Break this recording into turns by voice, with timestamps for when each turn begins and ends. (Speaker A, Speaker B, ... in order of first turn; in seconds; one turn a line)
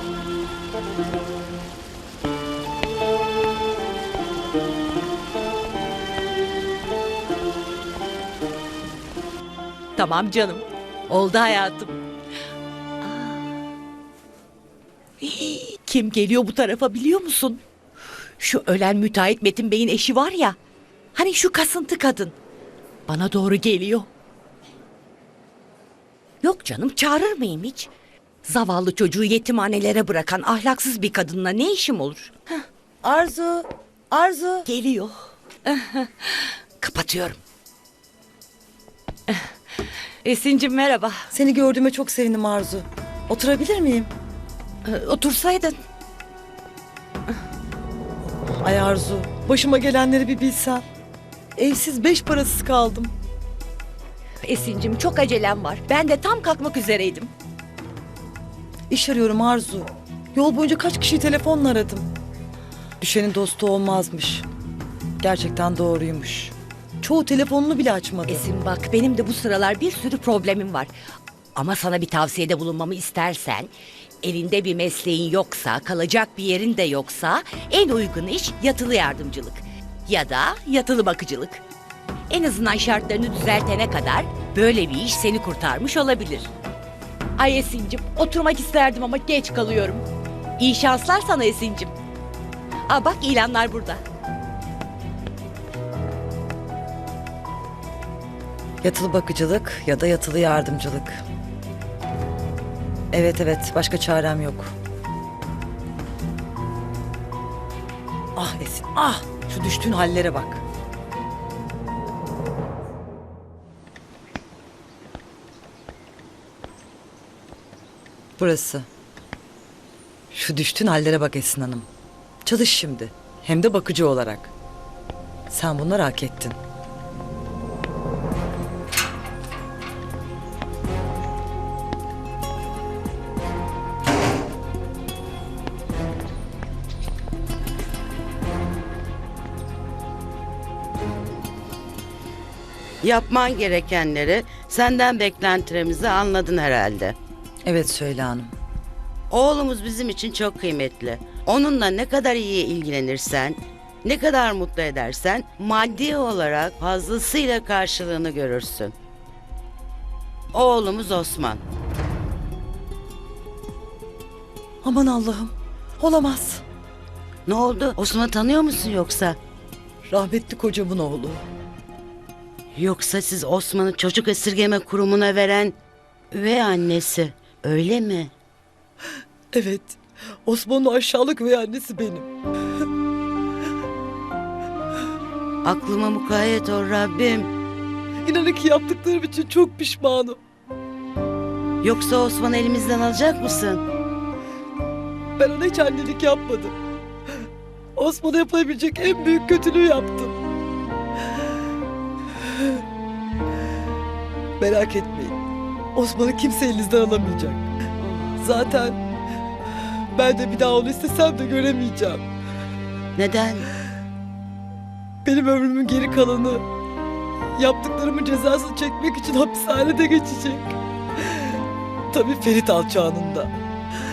Speaker A: 9.9-12.0
Speaker A: 13.0-13.4
Speaker A: 15.2-17.6
Speaker A: 18.4-20.6
Speaker A: 21.1-22.3
Speaker A: 23.1-24.1
Speaker A: 26.4-27.9
Speaker A: 28.4-32.4
Speaker B: 33.0-34.7
Speaker A: 34.7-37.4
Speaker A: 40.2-41.3
Speaker B: 41.3-44.1
Speaker A: 44.9-45.7
Speaker B: 48.6-50.8
Speaker B: 51.5-53.1
Speaker A: 54.4-57.3
Speaker B: 58.9-62.0
Speaker B: 63.0-64.4
Speaker B: 65.2-68.5
Speaker A: 68.3-70.9
Speaker A: 71.5-73.7
Speaker A: 74.2-81.6
Speaker A: 82.3-86.5
Speaker A: 87.4-90.0
Speaker A: 90.6-91.9
Speaker A: 92.9-94.0
Speaker B: 98.8-101.2
Speaker B: 103.1-104.7
Speaker B: 108.3-110.6
Speaker B: 118.4-118.9
Speaker B: 120.3-121.9
Speaker B: 122.4-124.5
Speaker B: 125.5-126.6
Speaker C: 143.0-147.2
Speaker B: 147.6-148.5
Speaker C: 149.3-158.9
Speaker C: 160.5-161.6
Speaker B: 164.8-166.6
Speaker C: 167.5-169.4
Speaker B: 170.1-171.4
Speaker C: 172.7-175.7
Speaker C: 176.3-178.3
Speaker B: 179.5-182.3
Speaker C: 185.6-187.5
Speaker B: 188.2-190.4
Speaker C: 191.8-193.8
Speaker B: 195.4-196.7
Speaker B: 197.9-200.4
Speaker B: 204.6-205.4
Speaker B: 205.9-207.7
Speaker C: 208.0-208.4
Speaker B: 208.4-209.0
Speaker B: 210.1-212.2
Speaker C: 213.2-213.7
Speaker B: 215.2-216.6
Speaker B: 217.6-220.7
Speaker B: 222.1-223.5